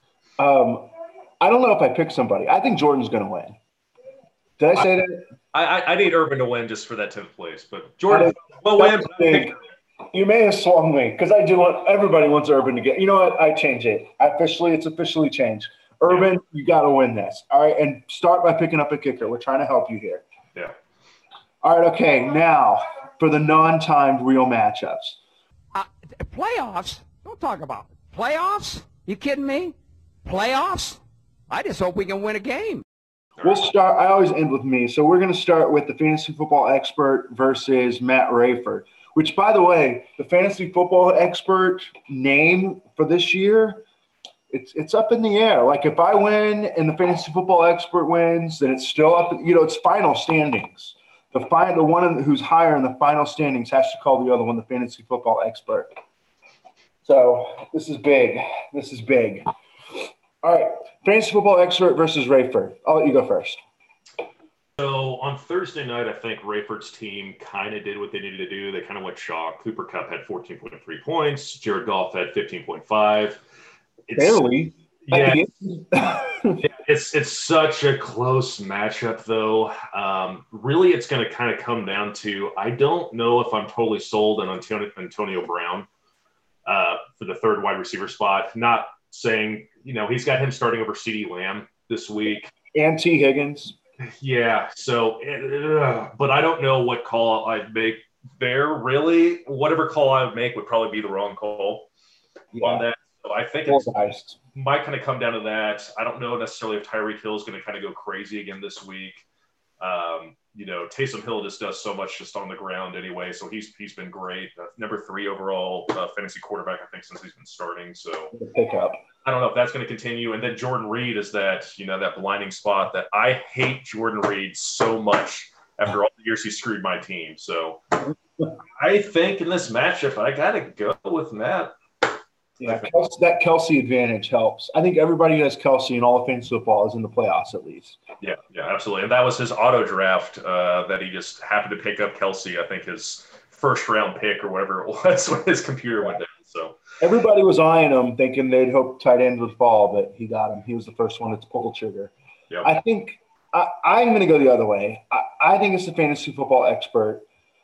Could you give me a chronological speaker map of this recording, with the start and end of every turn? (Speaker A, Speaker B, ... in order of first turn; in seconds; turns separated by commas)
Speaker A: 0.4-0.9, Speaker A: 1.4-3.6, Speaker A: 4.6-5.2, Speaker B: 5.5-9.6, Speaker A: 8.1-9.5, Speaker A: 10.1-20.2, Speaker B: 16.1-16.3, Speaker A: 21.6-25.2, Speaker C: 25.7-32.8, Speaker A: 33.4-43.8, Speaker A: 44.5-55.9, Speaker A: 57.0-59.4, Speaker A: 60.4-63.6, Speaker B: 64.8-73.4, Speaker B: 74.1-74.4, Speaker A: 74.2-76.6, Speaker B: 75.0-75.4, Speaker B: 76.6-85.9, Speaker B: 86.7-92.5, Speaker A: 92.7-93.8, Speaker B: 94.0-101.9, Speaker A: 102.5-102.8, Speaker B: 102.6-103.9, Speaker A: 103.7-104.3, Speaker B: 104.5-109.2, Speaker B: 109.8-118.3, Speaker A: 118.3-119.0, Speaker B: 119.2-127.8, Speaker B: 128.8-131.7, Speaker A: 132.6-138.0, Speaker B: 132.6-132.9, Speaker B: 138.2-146.8, Speaker A: 147.0-152.1, Speaker A: 152.6-157.2